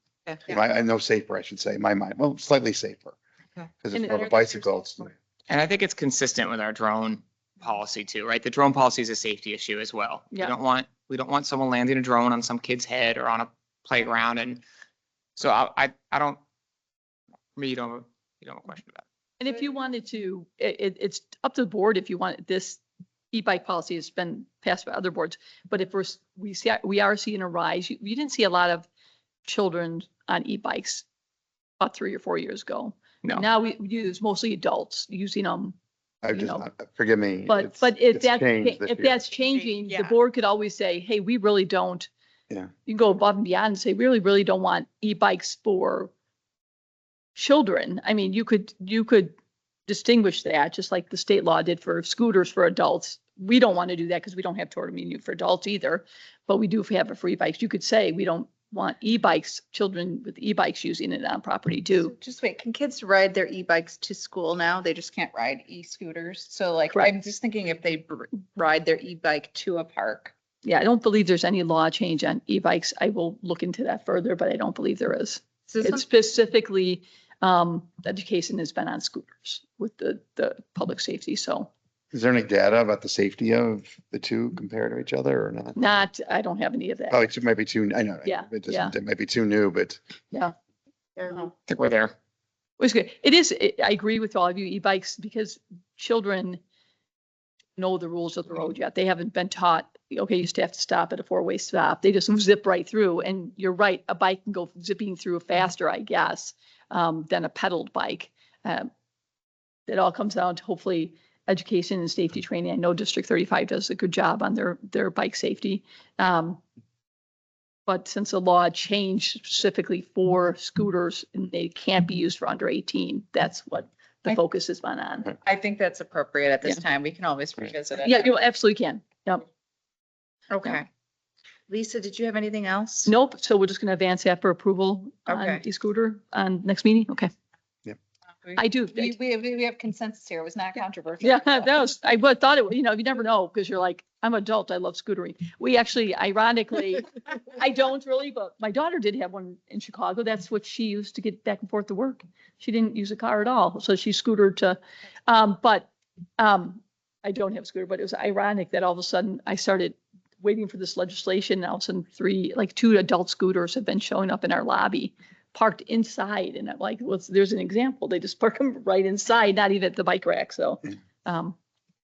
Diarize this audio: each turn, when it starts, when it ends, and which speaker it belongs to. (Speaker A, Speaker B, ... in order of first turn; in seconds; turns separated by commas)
Speaker A: 0.5-3.2, Speaker A: 3.8-5.1, Speaker B: 3.9-4.3, Speaker C: 5.5-14.6, Speaker C: 15.4-16.4, Speaker C: 17.6-19.1, Speaker B: 19.4-22.8, Speaker B: 23.3-28.9, Speaker B: 29.5-31.1, Speaker B: 31.8-35.8, Speaker A: 36.2-39.2, Speaker B: 36.3-36.7, Speaker B: 37.5-42.1, Speaker B: 42.9-46.1, Speaker B: 47.4-49.3, Speaker B: 49.9-62.1, Speaker D: 62.1-70.3, Speaker B: 70.6-81.7, Speaker D: 75.7-76.0, Speaker A: 82.1-86.0, Speaker B: 85.8-87.3, Speaker A: 87.1-90.0, Speaker B: 88.2-89.0, Speaker C: 91.7-92.1, Speaker B: 92.8-96.6, Speaker B: 97.8-108.9, Speaker B: 109.9-116.6, Speaker B: 117.9-125.3, Speaker D: 125.4-128.3, Speaker B: 128.0-129.4, Speaker D: 130.5-130.9, Speaker D: 131.7-133.1, Speaker B: 133.1-137.3, Speaker D: 135.3-135.6, Speaker D: 138.4-141.7, Speaker B: 138.6-139.2, Speaker B: 141.2-171.6